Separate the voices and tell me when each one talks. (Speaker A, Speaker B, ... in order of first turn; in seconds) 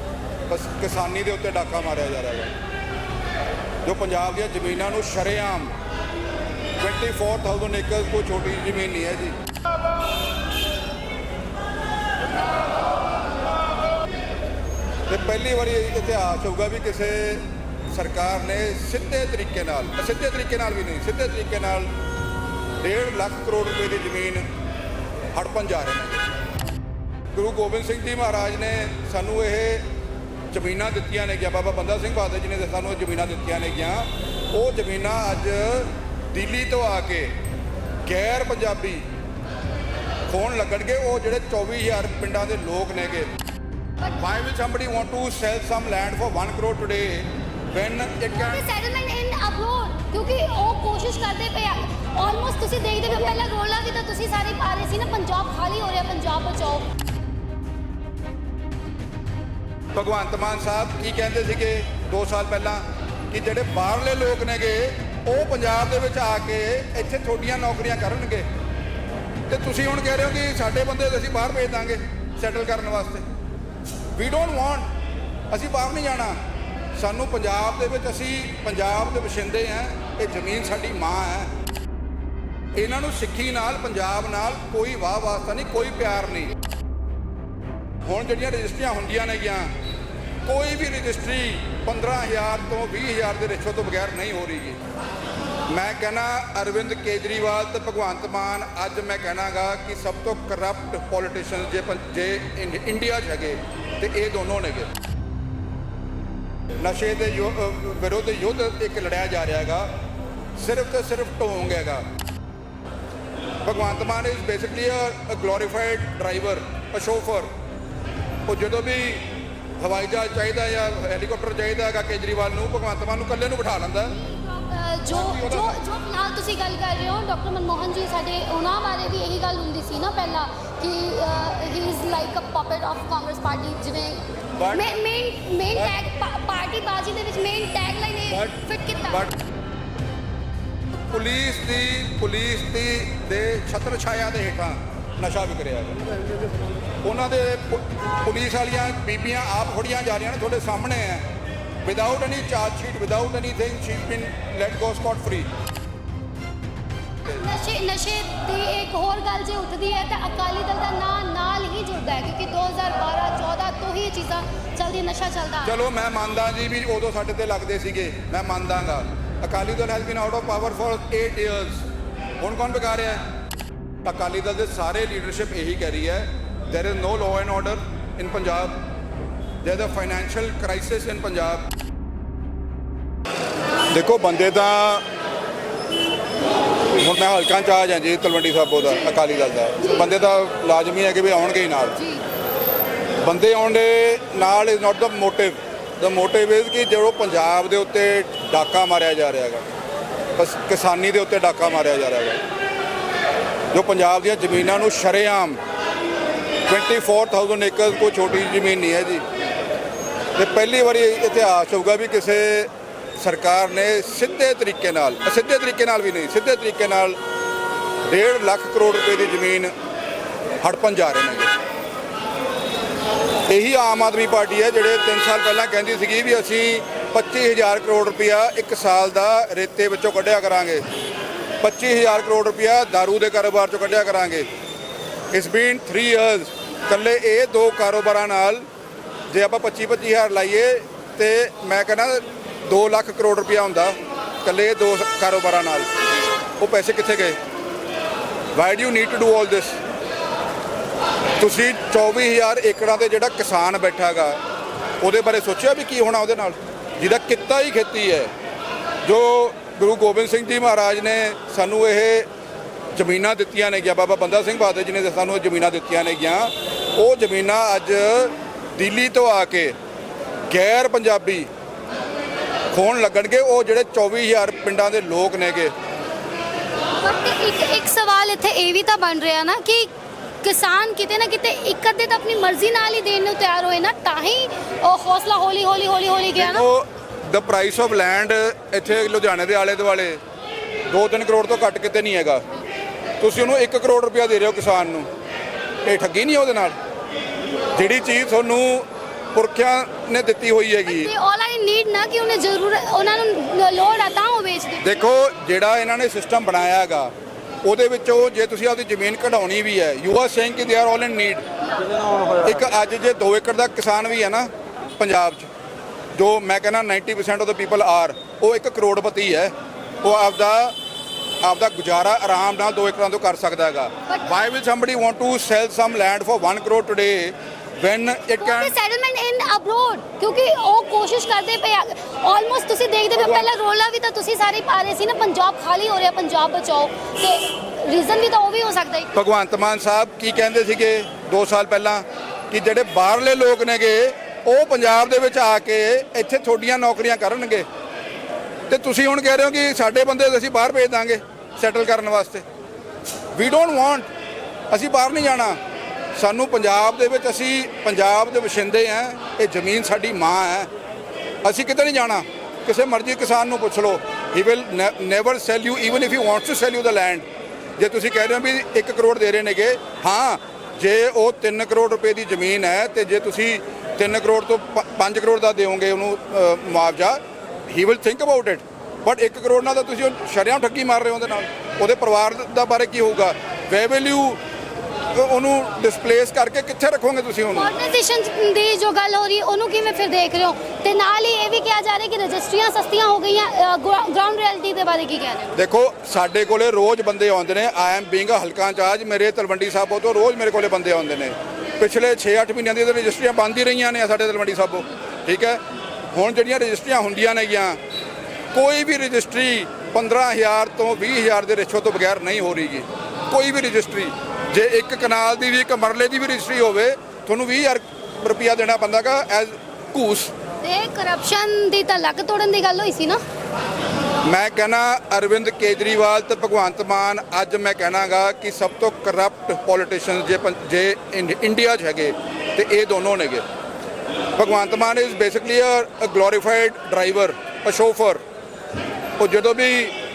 Speaker A: 0.5-2.5, 3.8-5.7, 6.8-9.3, 15.1-21.9, 22.8-24.4, 25.3-26.2, 27.3-29.8, 30.5-37.3, 38.0-39.0, 40.3-43.3, 44.2-48.6, 59.9-68.5, 69.5-73.2, 74.1-74.9, 75.5-76.4, 77.0-81.5, 82.8-86.5, 88.1-89.7, 90.4-94.8, 95.7-104.9, 106.8-109.9, 110.6-112.0, 113.6-117.5, 118.5-119.2, 119.8-124.1, 125.1-125.7, 134.6-135.0, 138.3-138.6, 141.1-146.0, 147.0-151.2, 151.8-155.5, 165.6-171.8, 172.4-173.2, 174.0-178.8, 179.6-181.7, 183.9-185.0, 187.0-191.9, 193.2-199.6, 200.3-202.4, 203.7-205.6, 206.7-209.2, 210.3-217.2, 218.1-219.7, 220.6-221.5, 223.5-230.8, 231.6-234.5, 235.3-238.7, 239.3-245.9, 246.6-247.4, 248.5-249.8, 251.4-254.4, 255.0-258.3, 259.0-262.3, 262.9-269.7, 270.5-271.5, 272.7-275.7, 286.4-290.2, 290.9-292.4, 293.2-295.1, 295.8-296.8, 297.7-301.1, 304.8-307.1, 307.6-311.4, 312.4-315.5, 316.1-320.7, 321.4-328.7, 333.2-333.5, 339.1-347.6, 348.7-352.4, 353.3-354.1, 354.7-355.6, 356.1-360.7, 361.4-367.2, 367.8-384.4, 385.1-387.7, 395.5-405.6, 406.1-407.8, 408.5-420.3, 424.3-433.4, 434.4-438.2, 439.2-439.9
Speaker B: 48.3-56.8, 124.2-134.2, 134.7-139.2, 157.2-165.7, 192.0-192.2, 277.0-279.9, 280.4-286.6, 300.9-304.8, 328.4-339.1, 387.5-395.5, 420.6-423.2